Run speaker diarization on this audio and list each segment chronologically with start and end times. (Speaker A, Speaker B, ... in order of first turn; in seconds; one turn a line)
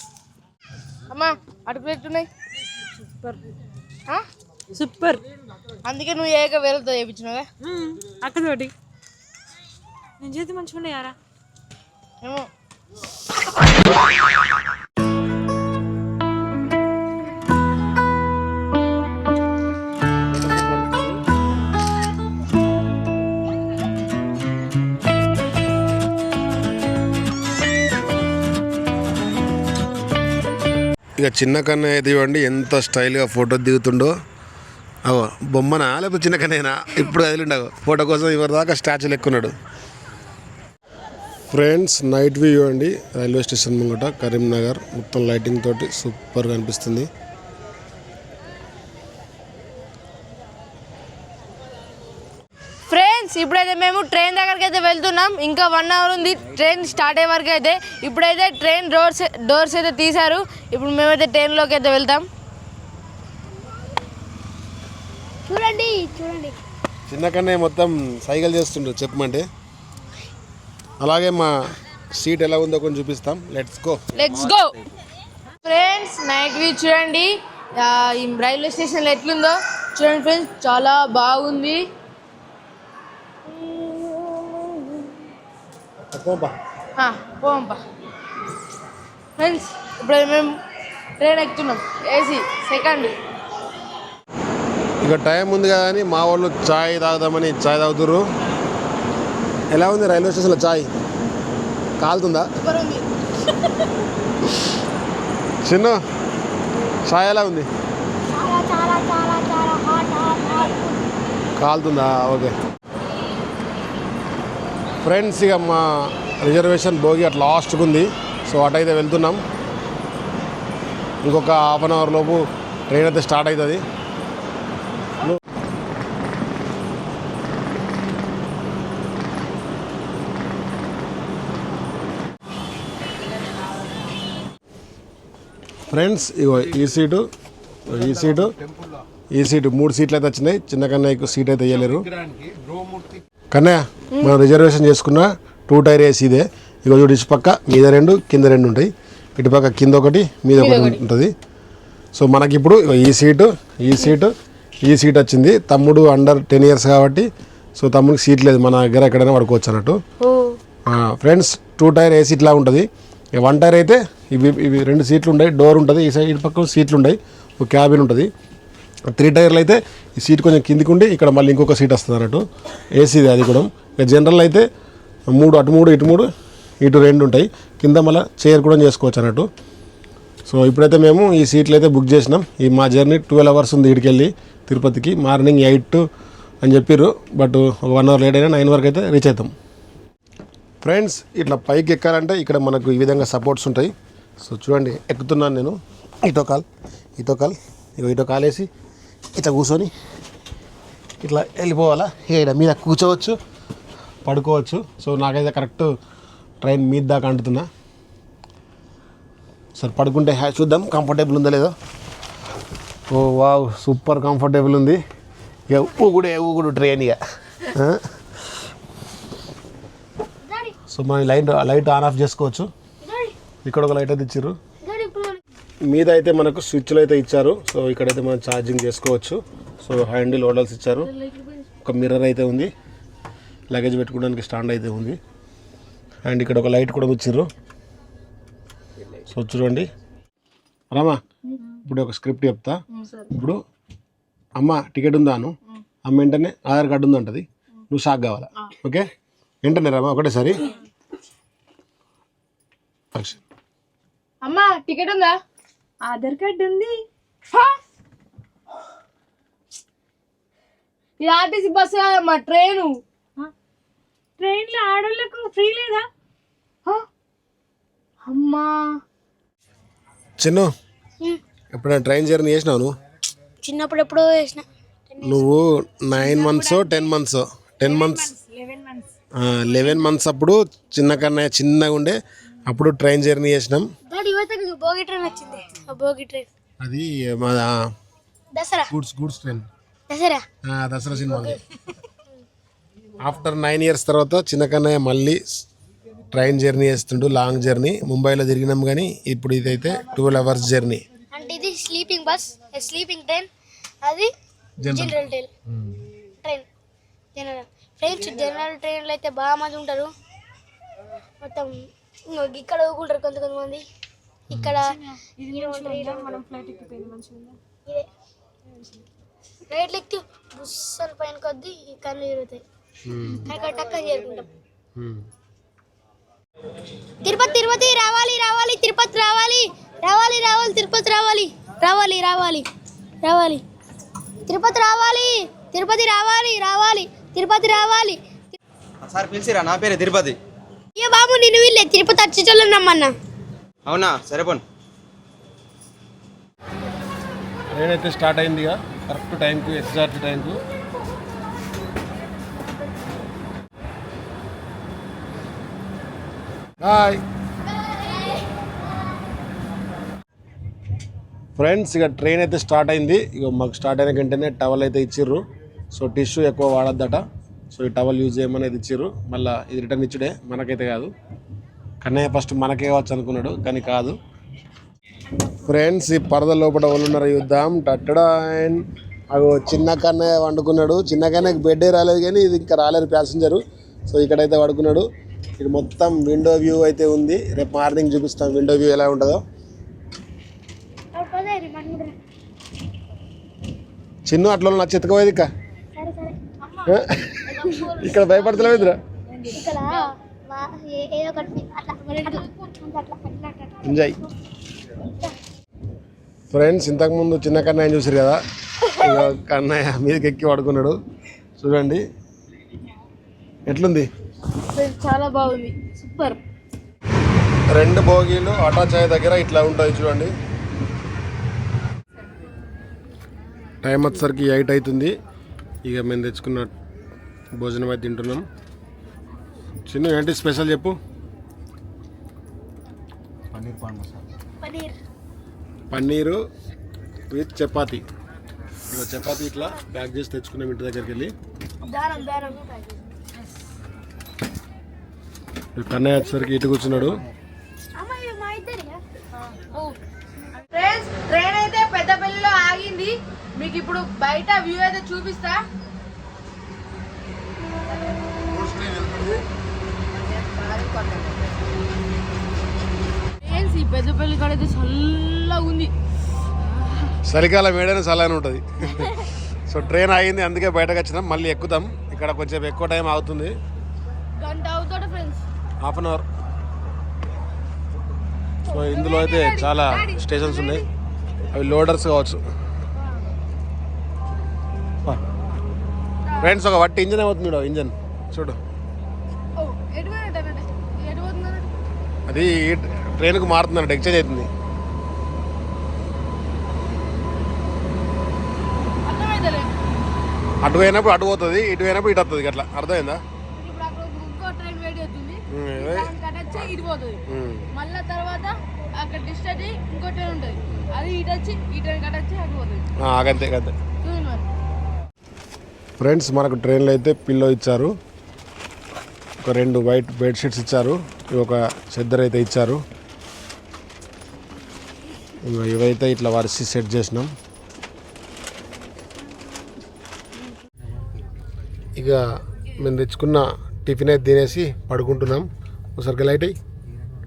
Speaker A: 1.1-2.3
Speaker B: 3.0-3.4
Speaker B: 4.7-5.2
Speaker A: 5.8-7.5
Speaker B: 7.6-8.7
Speaker B: 10.2-11.1
Speaker C: 31.2-34.1
Speaker C: 35.0-39.5
Speaker C: 41.5-47.1
Speaker A: 52.9-62.2
Speaker D: 65.5-66.6
Speaker C: 67.1-69.4
Speaker C: 71.0-71.5
Speaker C: 72.1-74.0
Speaker A: 74.1-74.7
Speaker A: 75.6-81.8
Speaker D: 83.6-85.0
Speaker C: 86.1-86.5
Speaker A: 87.0-87.8
Speaker A: 89.4-90.5
Speaker A: 91.2-93.1
Speaker C: 95.0-98.2
Speaker C: 99.7-100.9
Speaker C: 102.0-102.5
Speaker A: 102.6-103.0
Speaker C: 105.6-106.0
Speaker C: 107.0-107.7
Speaker D: 108.3-111.0
Speaker C: 111.6-112.5
Speaker C: 115.0-119.4
Speaker C: 121.2-123.8
Speaker C: 135.9-137.2
Speaker C: 137.8-138.5
Speaker C: 139.3-142.5
Speaker C: 143.5-151.3
Speaker A: 150.6-151.0
Speaker C: 152.1-154.3
Speaker C: 154.8-160.0
Speaker C: 160.9-168.3
Speaker C: 169.1-172.4
Speaker C: 172.9-174.7
Speaker C: 175.3-176.3
Speaker C: 176.8-179.5
Speaker C: 180.5-186.0
Speaker C: 186.6-189.5
Speaker C: 190.8-193.9
Speaker C: 194.4-196.7
Speaker C: 197.2-198.7
Speaker C: 199.3-199.9
Speaker C: 201.2-203.4
Speaker C: 204.2-205.9
Speaker C: 206.6-207.7
Speaker C: 209.8-211.7
Speaker C: 213.1-215.0
Speaker C: 215.7-218.0
Speaker D: 220.4-220.7
Speaker C: 220.9-222.7
Speaker D: 223.0-223.3
Speaker C: 223.6-224.6
Speaker D: 224.8-225.4
Speaker C: 225.9-231.1
Speaker C: 231.8-232.7
Speaker C: 233.7-235.2
Speaker C: 236.2-237.5
Speaker C: 239.2-239.9
Speaker C: 240.9-241.2
Speaker C: 241.8-242.8
Speaker A: 242.9-243.3
Speaker C: 243.3-243.6
Speaker C: 244.6-249.1
Speaker C: 249.6-250.6
Speaker C: 253.1-253.4
Speaker A: 254.4-255.3
Speaker B: 256.0-257.0
Speaker A: 261.2-262.9
Speaker B: 264.4-266.1
Speaker A: 268.2-268.7
Speaker C: 270.4-270.7
Speaker C: 271.7-272.9
Speaker D: 273.6-275.5
Speaker C: 275.2-278.3
Speaker D: 276.4-276.9
Speaker D: 278.0-278.8
Speaker C: 279.4-283.8
Speaker D: 284.1-286.5
Speaker C: 286.8-287.8
Speaker D: 288.5-288.9
Speaker C: 288.9-289.6
Speaker D: 290.1-290.4
Speaker C: 290.6-291.6
Speaker D: 291.3-291.6
Speaker C: 293.2-295.6
Speaker C: 296.3-301.0
Speaker D: 301.3-303.5
Speaker D: 304.0-304.3
Speaker C: 304.8-305.2
Speaker D: 304.9-305.5
Speaker C: 305.8-306.0
Speaker D: 306.4-306.7
Speaker D: 307.3-310.1
Speaker D: 311.4-313.8
Speaker D: 314.5-314.9
Speaker C: 314.5-314.8
Speaker B: 314.9-317.6
Speaker D: 315.5-316.3
Speaker D: 319.7-322.6
Speaker C: 323.0-323.5
Speaker D: 323.4-324.5
Speaker C: 324.9-325.2
Speaker D: 327.2-332.7
Speaker D: 333.2-333.6
Speaker D: 334.4-338.2
Speaker E: 339.0-340.4
Speaker D: 341.0-343.1
Speaker E: 343.9-344.6
Speaker C: 347.7-350.6
Speaker C: 356.8-357.2
Speaker C: 361.6-365.4
Speaker C: 365.9-367.2
Speaker C: 367.7-371.1
Speaker C: 372.0-374.1
Speaker C: 375.6-385.1
Speaker C: 385.6-389.4
Speaker D: 391.1-392.1
Speaker C: 394.2-395.5
Speaker D: 395.9-396.4
Speaker C: 396.8-399.0
Speaker D: 397.4-398.9
Speaker D: 399.5-403.9
Speaker C: 403.8-404.2
Speaker D: 405.1-405.3
Speaker C: 406.5-408.4
Speaker C: 408.9-411.0
Speaker C: 411.6-412.0
Speaker C: 413.6-414.1
Speaker A: 414.7-416.4
Speaker C: 417.7-420.3
Speaker C: 423.8-425.1
Speaker C: 425.8-426.7
Speaker C: 427.6-428.4
Speaker C: 429.9-430.9
Speaker C: 433.5-434.1
Speaker D: 434.6-435.0
Speaker C: 435.9-436.4
Speaker C: 437.3-438.0
Speaker C: 438.9-441.3
Speaker D: 441.8-442.7
Speaker C: 445.7-447.2
Speaker D: 448.0-449.0
Speaker A: 449.5-449.9
Speaker A: 450.7-455.6
Speaker C: 458.5-459.4
Speaker A: 460.3-461.4
Speaker A: 463.4-465.9
Speaker C: 467.2-469.1
Speaker C: 469.6-473.6
Speaker A: 474.4-475.4
Speaker C: 475.8-476.2
Speaker C: 478.7-480.8
Speaker A: 478.7-480.8
Speaker C: 481.5-482.4
Speaker A: 486.3-486.6
Speaker C: 486.4-488.6
Speaker A: 489.6-491.7
Speaker C: 492.3-494.5
Speaker A: 499.1-499.7
Speaker C: 500.6-503.2
Speaker A: 503.6-507.2
Speaker C: 505.5-506.1
Speaker C: 507.3-507.6
Speaker A: 507.7-512.8
Speaker C: 513.0-513.7
Speaker A: 514.0-514.5
Speaker C: 516.0-517.9
Speaker C: 519.4-522.8
Speaker C: 525.4-527.3
Speaker C: 532.8-536.5